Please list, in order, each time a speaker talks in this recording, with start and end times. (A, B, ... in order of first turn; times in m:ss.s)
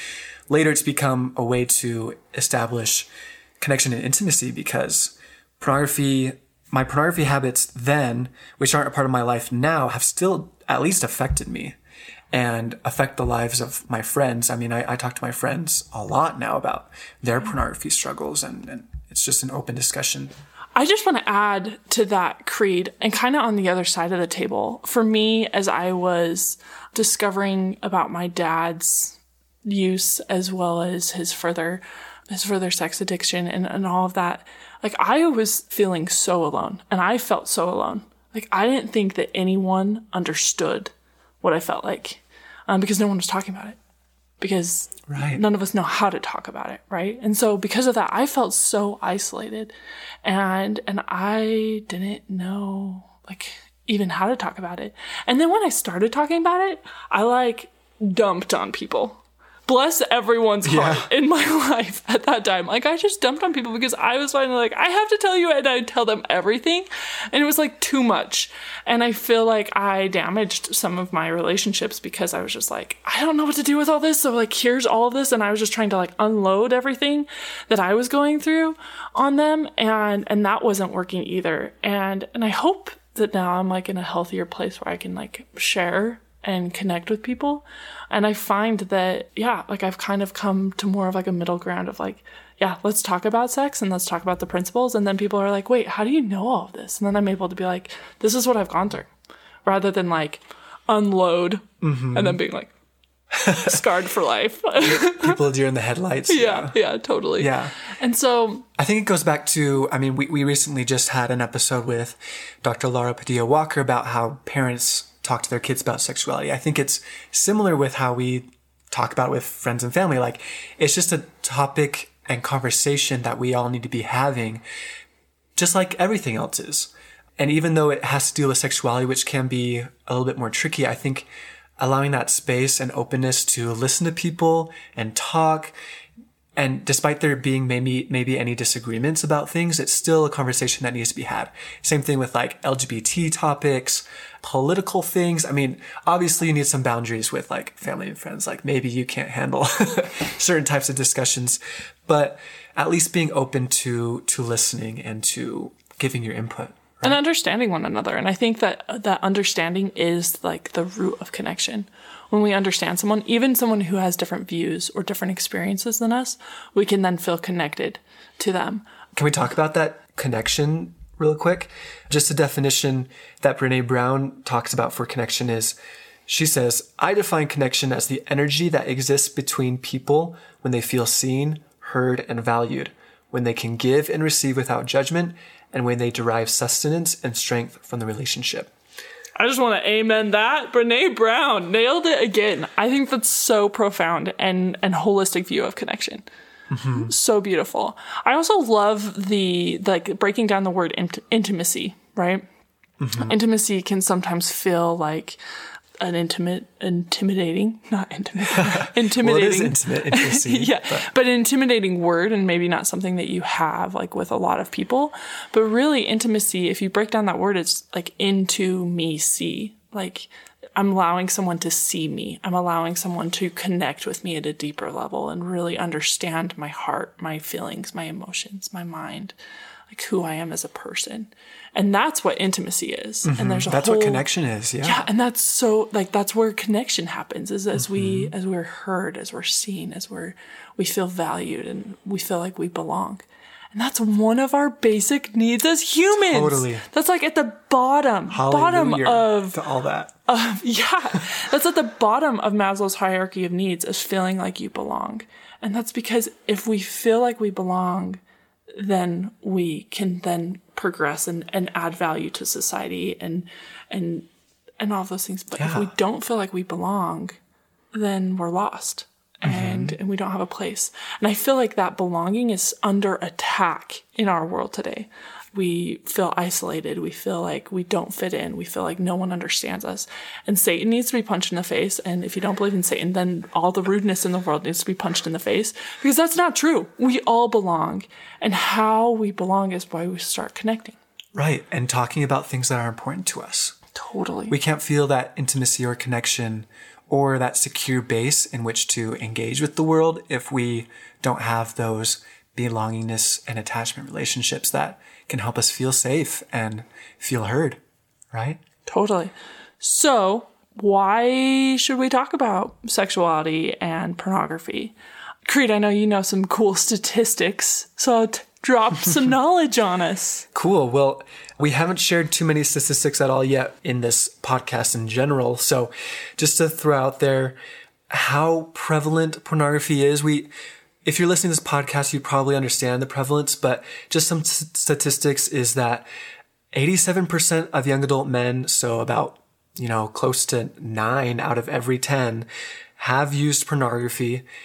0:00.5-0:11.8 A
0:12.3-0:20.3 A
0:20.8-0:43.8 B
0:44.4-0:49.7 B
0:45.1-0:45.4 A
0:50.2-1:39.1 B
1:00.6-1:01.1 A
1:39.6-1:42.7 B
1:41.8-1:42.4 A
1:43.4-1:43.8 A
1:43.4-1:45.4 B
1:44.8-1:46.8 A
1:46.3-1:48.7 B
1:47.4-1:47.8 A
1:48.8-2:04.6 A
2:05.6-2:11.3 A
2:11.8-2:15.7 A
2:16.6-2:37.2 A
2:37.0-2:48.8 B
2:49.1-2:55.8 A
2:56.3-3:08.7 A
3:09.4-3:16.2 B
3:16.7-3:17.1 A
3:16.9-3:22.4 B
3:23.0-3:23.3 A
3:23.2-3:25.4 B
3:26.0-3:49.3 B
3:28.5-3:31.1 A
3:49.9-3:54.2 B
3:53.2-3:55.1 A
3:54.8-4:09.6 B
3:57.7-3:58.3 A
4:06.1-4:06.8 A
4:08.3-4:10.1 A
4:10.3-4:18.2 B
4:18.7-4:24.3 B
4:24.8-4:27.4 B
4:25.6-4:25.9 A
4:27.9-4:51.0 B
4:29.4-4:30.0 A
4:51.3-4:53.8 A
4:53.9-4:54.6 B
4:54.5-5:07.8 A
5:08.3-5:08.6 A
5:08.8-5:14.9 B
5:15.4-5:20.4 B
5:20.5-5:27.6 A
5:28.1-5:30.5 A
5:31.0-5:36.0 A
5:36.7-5:42.4 A
5:43.0-5:44.4 A